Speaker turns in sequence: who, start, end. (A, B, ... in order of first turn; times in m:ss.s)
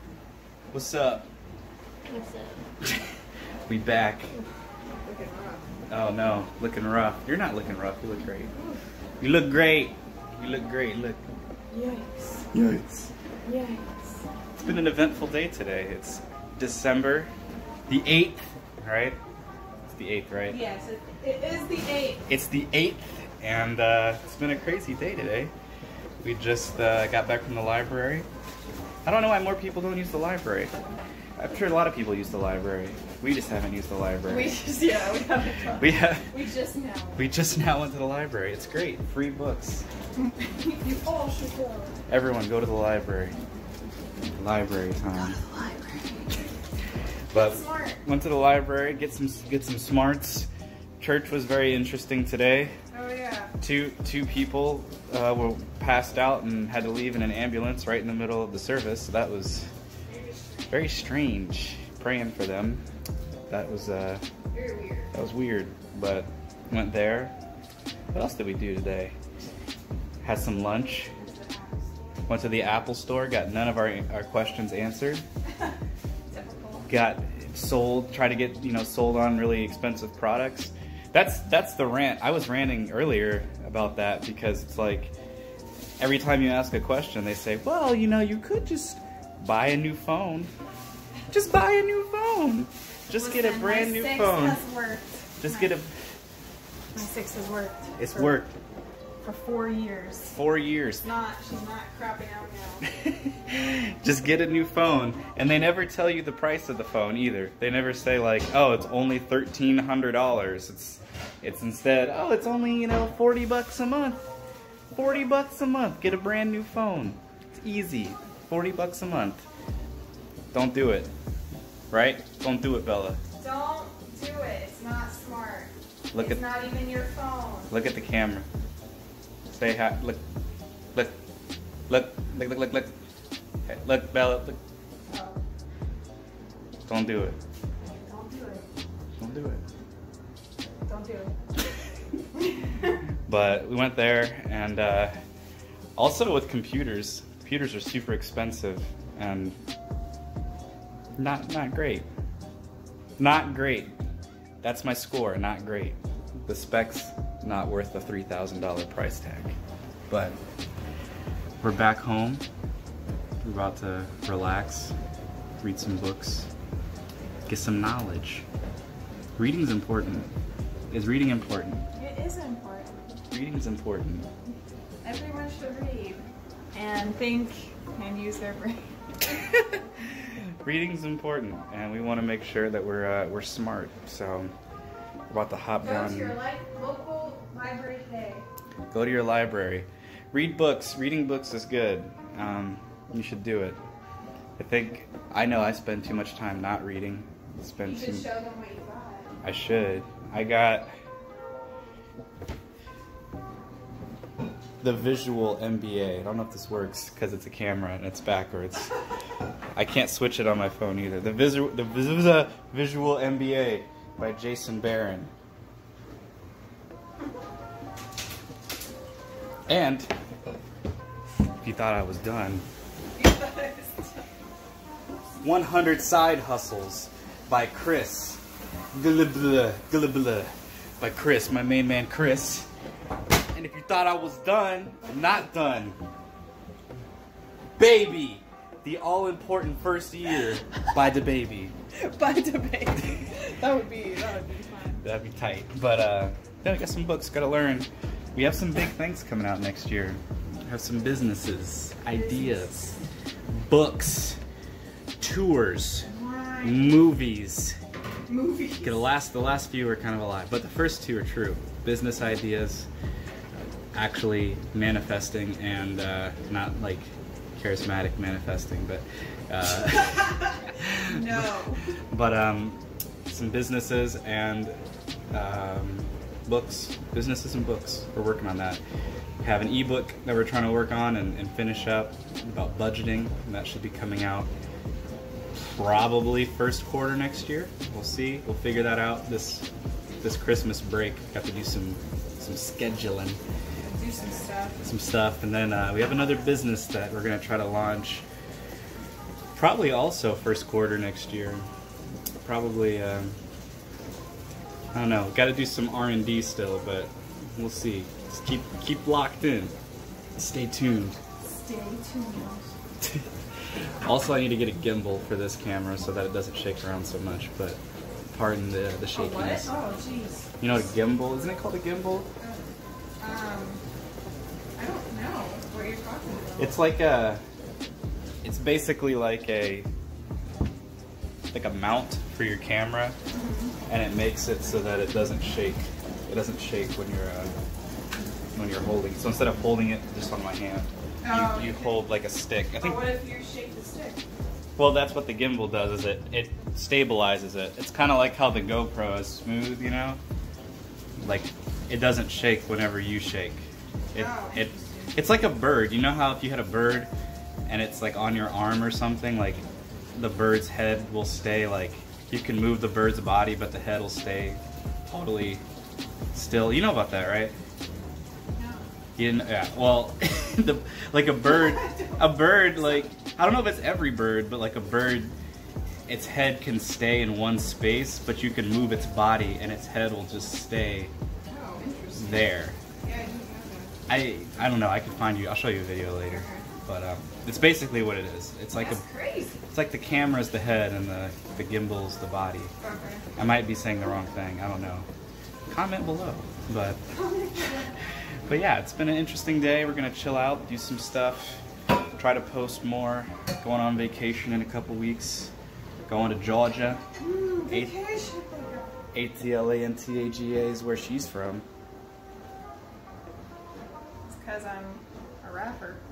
0:00.7-0:01.2 A
0:02.1-0:02.6 B
0:03.7-0:04.3 A
0:05.0-0:05.6 B
0:05.9-0:08.5 A
0:08.5-0:08.8 B
0:09.2-0:11.2 A
0:11.7-0:12.5 B
0:12.5-0:13.1 A
0:13.4-0:14.2 B
0:14.6-0:17.3 A
0:17.9-0:19.2 A
0:19.9-0:20.6 A
0:20.5-0:22.2 B
0:22.3-0:25.5 A
0:26.2-0:28.3 A
0:29.0-0:30.7 A
0:31.4-0:34.6 A
0:34.3-0:37.2 B
0:35.8-0:36.3 A
0:37.2-0:39.8 A
0:40.2-0:42.0 B
0:42.1-0:43.4 A
0:44.4-0:45.4 A
0:45.3-0:46.2 B
0:47.3-0:48.0 B
0:47.3-0:52.8 A
0:52.9-0:53.5 B
0:53.6-0:59.7 A
1:00.1-1:00.9 B
1:00.7-1:02.8 A
1:03.5-1:04.2 A
1:04.5-1:05.1 B
1:05.1-1:07.3 A
1:08.1-1:09.1 A
1:10.2-1:11.1 A
1:11.1-1:12.3 B
1:12.3-1:15.2 A
1:16.3-1:16.9 B
1:16.9-1:25.2 A
1:26.0-1:30.5 A
1:31.3-1:34.6 A
1:33.2-1:35.8 B
1:35.4-1:35.9 A
1:36.9-1:38.4 B
1:38.0-1:38.5 A
1:39.2-1:40.4 B
1:40.3-1:41.0 A
1:41.0-1:42.8 B
1:43.0-1:54.2 A
1:54.9-1:59.4 A
2:00.5-2:01.1 A
2:01.9-2:03.2 A
2:03.4-2:07.7 B
2:06.1-2:06.4 A
2:07.7-2:08.5 A
2:09.5-2:10.2 A
2:11.9-2:12.9 A
2:13.7-2:14.6 A
2:15.1-2:15.4 B
2:16.9-2:17.4 A
2:17.9-2:18.7 B
2:19.2-2:19.6 A
2:20.9-2:21.3 B
2:23.3-2:25.1 A
2:26.0-2:29.6 A
2:31.2-2:32.1 A
2:33.2-2:34.0 A
2:34.6-2:39.6 A
2:40.1-2:40.4 A
2:41.6-2:42.4 A
2:43.4-2:44.9 A
2:45.6-2:46.5 A
2:47.5-2:48.4 A
2:49.4-2:50.3 A
2:50.9-2:51.9 A
2:52.0-2:53.2 B
2:53.3-2:54.3 A
2:55.0-2:58.9 B
2:59.4-3:04.5 A
3:05.3-3:06.4 A
3:05.8-3:08.5 B
3:08.9-3:13.8 A
3:14.6-3:18.3 A
3:17.8-3:19.4 B
3:19.4-3:20.9 A
3:24.8-3:28.9 A
3:29.8-3:35.3 A
3:39.7-3:40.1 A
3:41.6-3:42.6 A
3:43.2-3:44.2 B
3:45.4-3:48.4 A
3:48.9-3:52.7 A
3:53.5-3:56.0 A
3:57.8-4:01.7 A
4:02.0-4:05.0 B
4:05.0-4:12.9 A
4:12.1-4:12.9 B
4:13.5-4:14.4 A
4:15.2-4:16.1 A
4:16.0-4:17.0 B
4:16.6-4:17.8 A
4:18.3-4:19.1 B
4:18.8-4:22.9 A
4:23.9-4:31.5 A
4:30.1-4:30.4 B
4:31.1-4:31.8 B
4:32.1-4:34.8 A
4:35.3-4:38.8 A
4:39.4-4:44.5 A
4:45.5-4:49.7 A
4:50.2-4:53.4 A
4:53.8-4:54.8 B
4:54.8-4:58.2 A
4:59.6-5:01.7 A
5:02.4-5:03.4 A
5:04.9-5:09.7 A
5:10.4-5:11.2 A
5:11.4-5:12.7 B
5:13.0-5:13.3 A
5:14.0-5:17.8 A
5:18.3-5:19.7 A
5:19.1-5:20.5 B
5:20.6-5:22.3 A
5:23.2-5:23.8 B
5:24.8-5:26.8 B
5:26.6-5:27.4 A
5:28.4-5:29.9 A
5:31.5-5:33.2 A
5:33.3-5:33.8 B
5:33.9-5:37.5 A
5:38.6-5:43.2 A
5:41.2-5:42.1 B
5:42.8-5:44.2 B
5:44.8-5:50.2 A
5:51.2-5:57.1 A
5:54.1-5:55.1 B
5:57.7-6:05.6 A
6:06.3-6:07.5 A
6:08.6-6:08.9 B
6:09.2-6:15.3 A
6:11.4-6:12.6 B
6:16.1-6:21.1 A
6:21.5-6:23.9 B
6:22.2-6:22.8 A
6:24.1-6:29.1 A
6:26.3-6:26.7 B
6:28.8-6:29.6 B
6:29.7-6:32.7 A
6:32.8-6:33.2 B
6:33.4-6:35.1 A
6:35.7-6:37.0 A
6:37.1-6:37.9 B
6:38.5-6:41.6 A
6:42.2-6:45.5 A
6:46.1-6:47.0 A
6:47.2-6:48.9 B
6:49.1-6:51.6 A
6:54.3-6:56.0 B